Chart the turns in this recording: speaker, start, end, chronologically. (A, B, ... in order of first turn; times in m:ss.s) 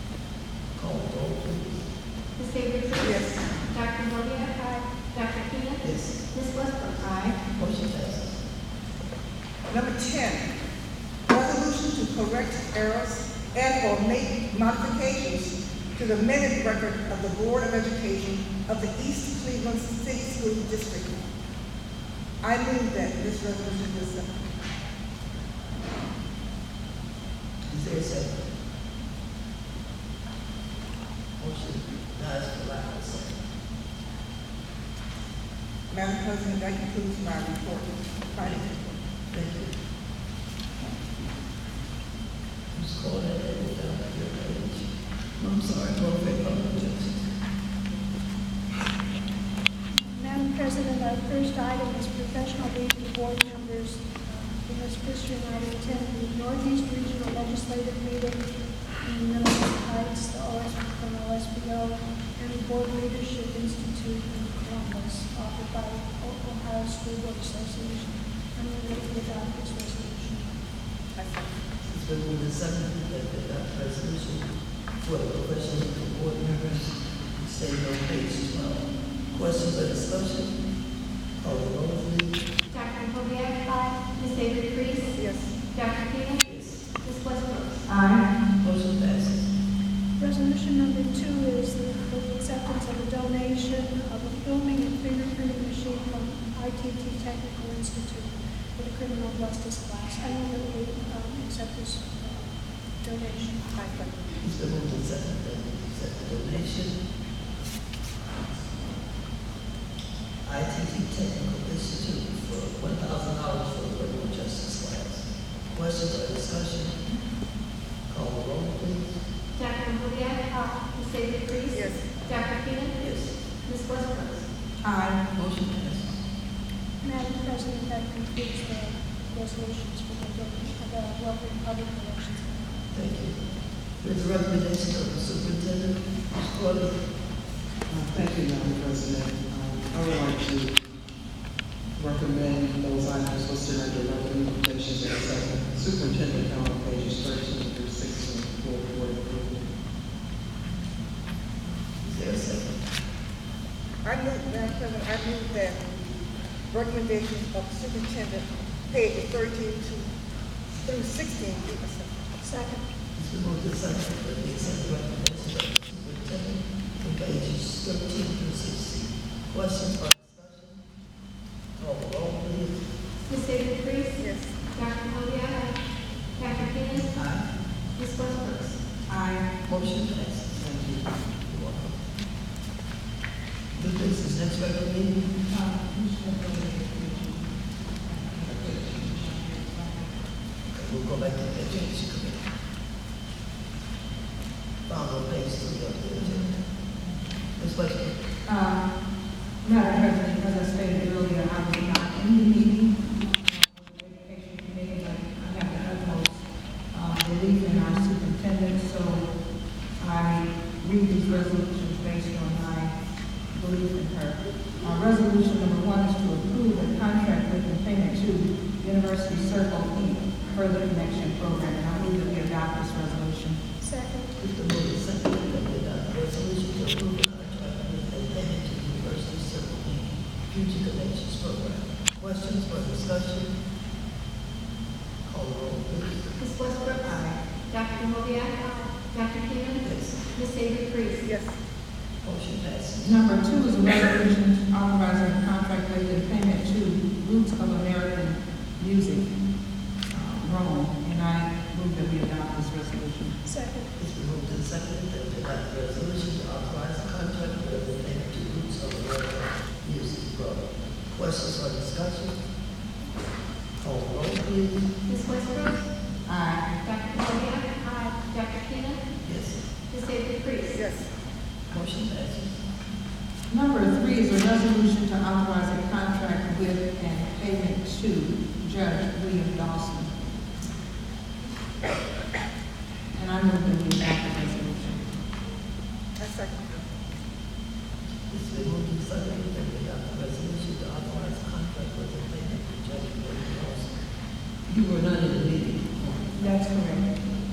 0:00.8-0:01.9 A
0:02.4-0:04.6 B
0:03.0-0:03.5 C
0:04.5-0:04.9 D
0:05.1-0:07.0 B
0:05.8-0:06.2 A
0:07.5-0:08.4 A
0:09.7-0:10.5 C
0:11.3-0:21.3 C
0:22.4-0:24.5 C
0:27.7-0:28.3 A
0:31.4-0:33.4 A
0:35.9-0:38.6 C
0:38.4-0:38.8 A
0:39.3-0:39.7 A
0:42.8-0:47.2 A
0:50.0-0:58.4 D
0:59.0-1:10.5 D
1:11.1-1:11.5 C
1:11.9-1:14.5 A
1:15.0-1:20.6 A
1:21.4-1:22.4 A
1:22.7-1:25.2 B
1:25.1-1:25.6 C
1:25.7-1:26.4 B
1:26.4-1:26.9 A
1:27.0-1:27.9 B
1:27.9-1:28.2 E
1:28.6-1:29.4 A
1:30.2-1:42.5 D
1:43.0-1:43.9 D
1:43.8-1:44.1 C
1:44.4-1:47.0 A
1:50.4-1:57.0 A
1:58.1-1:59.2 A
1:59.6-2:03.0 B
2:01.7-2:02.1 C
2:03.0-2:03.3 A
2:03.7-2:04.4 B
2:04.8-2:05.2 E
2:05.3-2:06.2 A
2:07.0-2:12.8 D
2:12.9-2:13.4 A
2:14.0-2:17.0 A
2:17.9-2:20.8 F
2:22.0-2:29.7 F
2:32.0-2:32.8 A
2:34.0-2:35.9 C
2:36.7-2:40.1 C
2:40.7-2:42.1 C
2:42.4-2:42.8 D
2:43.2-2:50.8 A
2:51.8-2:52.8 A
2:53.2-2:55.8 B
2:54.2-2:54.5 C
2:56.4-2:57.2 B
2:58.0-2:58.8 B
2:59.1-2:59.5 E
2:59.7-3:00.6 A
3:01.4-3:02.0 A
3:03.8-3:05.2 A
3:05.5-3:07.5 E
3:08.0-3:10.1 E
3:08.4-3:08.7 F
3:10.7-3:12.4 A
3:14.9-3:16.5 A
3:16.2-3:16.6 E
3:17.6-3:18.2 A
3:18.4-3:18.9 E
3:19.6-3:29.3 E
3:30.0-3:33.0 E
3:33.5-3:43.6 E
3:43.8-3:44.3 D
3:44.4-3:53.5 A
3:55.2-3:56.4 A
3:56.4-3:57.2 B
3:57.0-3:57.4 E
3:57.7-4:01.2 B
3:59.8-4:00.2 A
4:01.2-4:01.6 C
4:02.2-4:03.2 A
4:03.0-4:09.3 E
4:10.1-4:13.4 E
4:13.4-4:13.9 D
4:14.0-4:22.4 A
4:23.8-4:24.9 A
4:25.1-4:25.9 B
4:26.2-4:26.8 E
4:26.8-4:29.0 B
4:29.2-4:29.6 A
4:29.9-4:30.8 B
4:30.7-4:31.1 C
4:31.7-4:32.6 A
4:33.5-4:40.1 E
4:43.1-4:45.2 E
4:46.2-4:46.8 C
4:48.3-4:53.9 A
4:54.7-4:56.3 A
4:56.4-4:57.1 E